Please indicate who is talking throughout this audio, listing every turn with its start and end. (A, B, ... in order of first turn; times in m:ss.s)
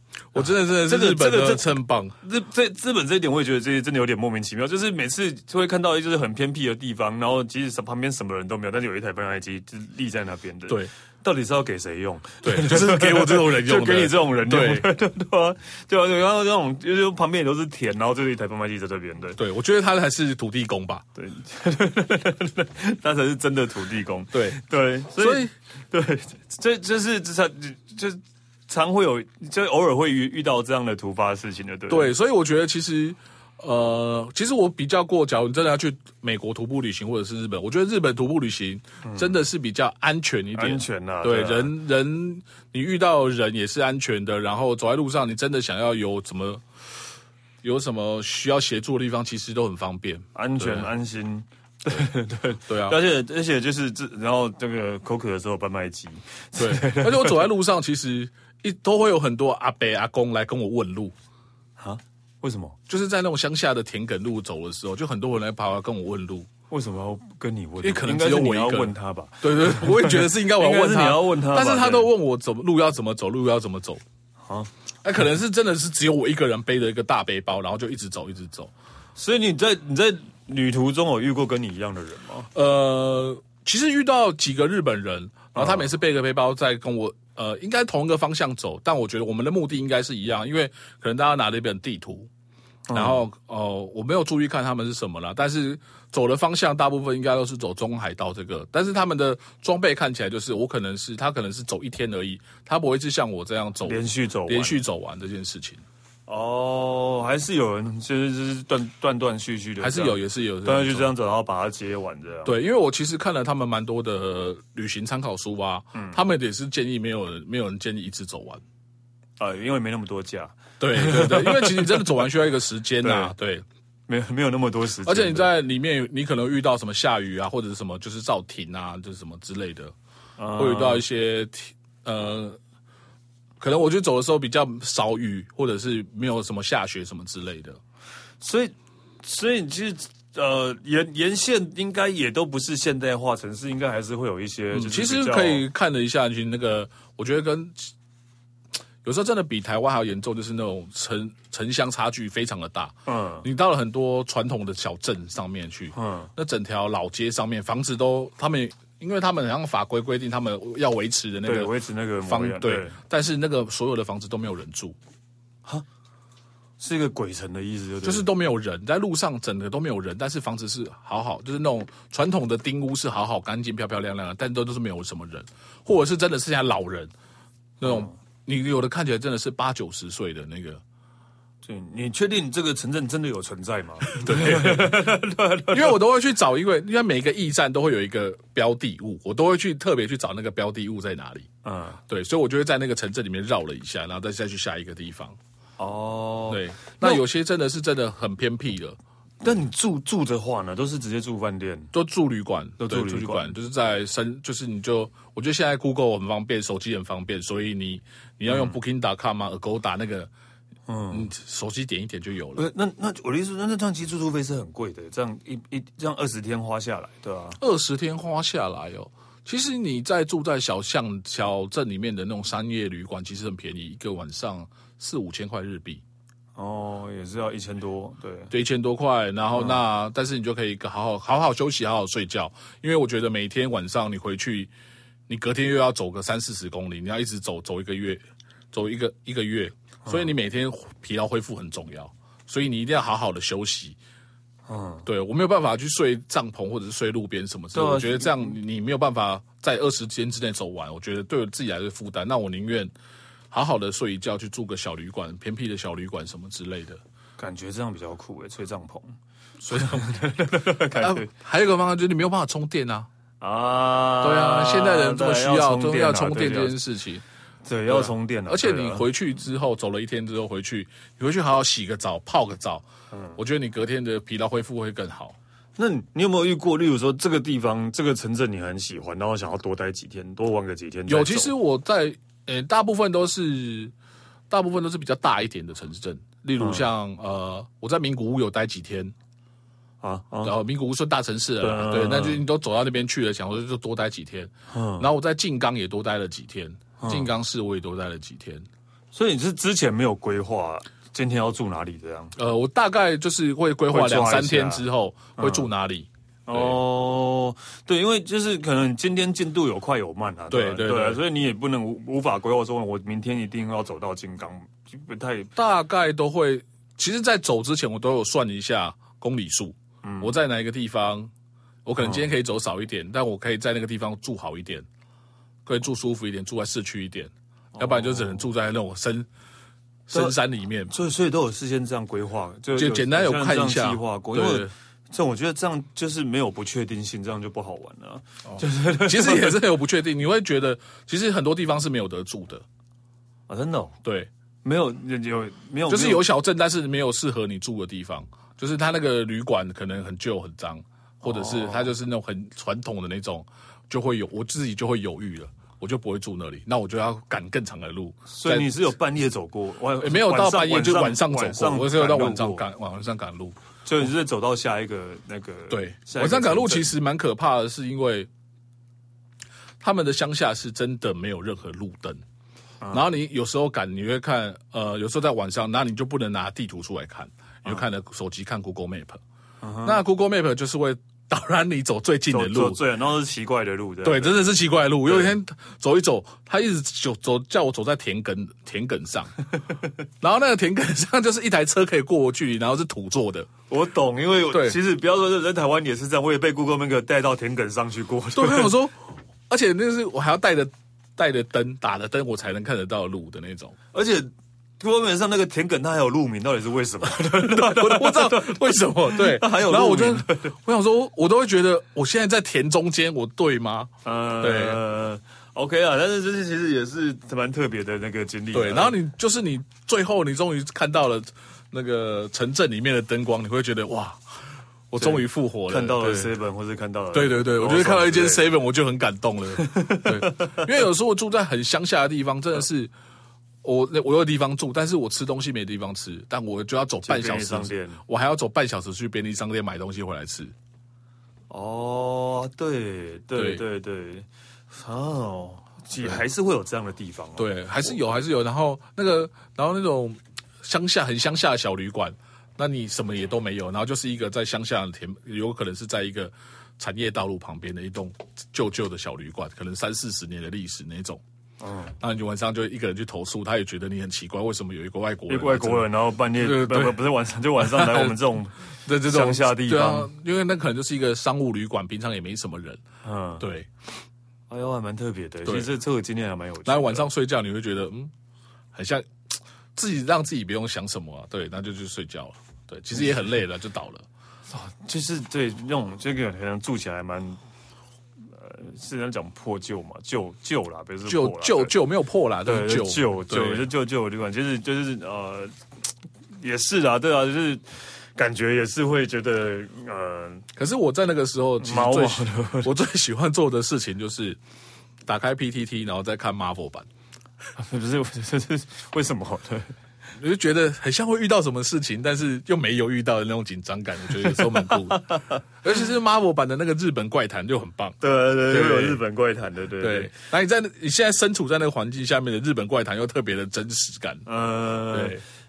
0:00.3-0:02.1 A
0:00.4-0:19.4 B
0:12.4-0:14.9 A
0:19.4-0:21.0 A
0:21.2-0:32.1 B
0:24.3-0:24.6 A
0:25.2-0:25.5 A
0:31.9-0:46.6 A
0:39.0-0:39.4 B
0:40.5-0:41.7 B
0:47.6-0:50.9 A
0:50.3-0:57.5 B
0:52.7-0:53.0 A
0:56.6-1:01.1 A
1:01.8-1:02.8 B
1:02.9-1:06.5 A
1:06.7-1:12.1 B
1:07.8-1:14.0 A
1:15.0-1:18.7 A
1:19.2-1:22.5 B
1:22.5-1:32.3 A
1:25.5-1:25.9 B
1:32.9-1:33.2 B
1:32.9-1:45.8 A
1:43.8-1:44.8 B
1:46.3-1:52.6 B
1:49.8-1:51.1 A
1:52.4-1:58.6 A
1:55.9-1:56.2 B
1:59.4-2:02.2 B
2:00.8-2:03.6 A
2:03.0-2:03.3 B
2:04.1-2:05.5 B
2:05.0-2:09.9 A
2:10.4-2:11.0 B
2:10.5-2:12.6 A
2:13.6-2:17.8 A
2:18.4-2:25.6 B
2:24.7-2:27.9 A
2:29.0-2:45.0 A
2:33.1-2:33.5 B
2:35.9-2:36.3 B
2:41.4-2:43.0 B
2:46.8-2:48.3 B
2:48.0-2:57.1 A
2:57.8-3:00.8 A
2:57.8-2:58.2 B
3:01.6-3:06.0 B
3:04.1-3:05.1 A
3:05.7-3:11.5 A
3:11.6-3:12.0 B
3:12.1-3:15.4 A
3:15.8-3:17.2 B
3:16.5-3:19.0 A
3:19.4-3:21.9 B
3:21.9-3:30.3 A
3:22.8-3:23.5 B
3:28.5-3:28.8 B
3:30.9-3:31.3 B
3:31.1-3:32.6 A
3:32.5-3:37.6 B
3:37.6-3:46.0 A
3:46.6-3:48.5 B
3:48.5-3:54.7 A
3:49.5-3:49.8 B
3:55.3-4:04.0 A
4:00.0-4:00.3 B
4:04.7-4:05.0 B
4:05.0-4:12.9 A
4:07.7-4:08.5 B
4:13.5-4:17.0 A
4:17.4-4:19.1 B
4:19.6-4:20.2 A
4:19.7-4:21.3 B
4:20.9-4:23.1 A
4:23.4-4:26.8 B
4:24.2-4:27.2 A
4:27.6-4:29.1 B
4:27.9-4:35.4 A
4:33.1-4:33.4 B
4:35.8-4:41.5 B
4:41.1-4:43.9 A
4:44.5-4:49.1 A
4:46.6-4:46.9 B
4:50.0-4:50.6 B
4:50.4-4:58.6 A
4:51.6-4:52.4 B
4:54.7-4:55.1 B
4:57.0-4:57.3 B
4:59.1-5:02.3 B
5:02.4-5:06.8 A
5:03.9-5:04.8 B
5:05.4-5:05.7 B
5:06.5-5:15.5 B
5:10.5-5:11.2 A
5:15.6-5:21.3 A
5:20.0-5:20.3 B
5:21.8-5:24.8 A
5:22.0-5:22.3 B
5:25.6-5:29.3 A
5:27.8-5:28.4 B
5:30.1-5:30.9 A
5:30.9-5:39.6 B
5:32.7-5:34.7 A
5:38.5-5:42.6 A
5:43.5-5:44.0 B
5:44.0-5:44.3 A
5:44.6-5:46.2 B
5:45.9-5:58.7 A
5:51.2-5:51.9 B
5:58.3-6:02.6 B
6:00.0-6:03.6 A
6:03.8-6:06.9 B
6:05.7-6:08.3 A
6:09.8-6:12.2 A
6:12.9-6:19.2 A
6:19.6-6:20.0 B
6:19.8-6:22.8 A
6:22.3-6:25.4 B
6:24.0-6:29.4 A
6:30.2-6:33.5 A
6:33.7-6:38.8 B
6:34.5-6:34.8 A
6:38.3-6:43.8 A
6:43.9-6:50.5 B
6:47.4-6:54.8 A
6:54.0-6:59.0 B
6:58.5-7:04.2 A
7:04.9-7:06.3 A
7:05.0-7:08.5 B
7:07.1-7:12.9 A
7:09.6-7:10.7 B
7:13.6-7:20.5 A
7:17.0-7:18.0 B
7:21.5-7:28.0 B
7:23.3-7:23.6 A
7:27.4-7:41.2 A
7:41.6-7:42.0 B
7:42.0-7:47.0 A
7:45.3-7:50.1 B
7:47.6-7:48.2 A
7:48.8-7:52.8 A
7:53.0-7:53.4 B
7:53.4-7:53.7 A
7:54.5-7:57.1 B
7:55.4-7:55.7 A
7:56.6-7:58.1 A
7:58.7-7:59.1 A
7:59.8-8:04.0 A
8:04.5-8:07.4 B
8:08.3-8:11.7 B
8:11.1-8:13.7 A
8:12.4-8:15.5 B
8:16.4-8:20.5 B
8:20.6-8:24.4 A
8:21.6-8:22.7 B
8:25.0-8:26.9 A
8:27.6-8:29.8 B
8:30.2-8:38.0 A
8:34.2-8:35.4 B
8:38.0-8:40.1 B
8:38.5-8:39.0 A
8:39.8-8:44.2 A
8:44.2-8:45.2 B
8:44.9-8:45.2 A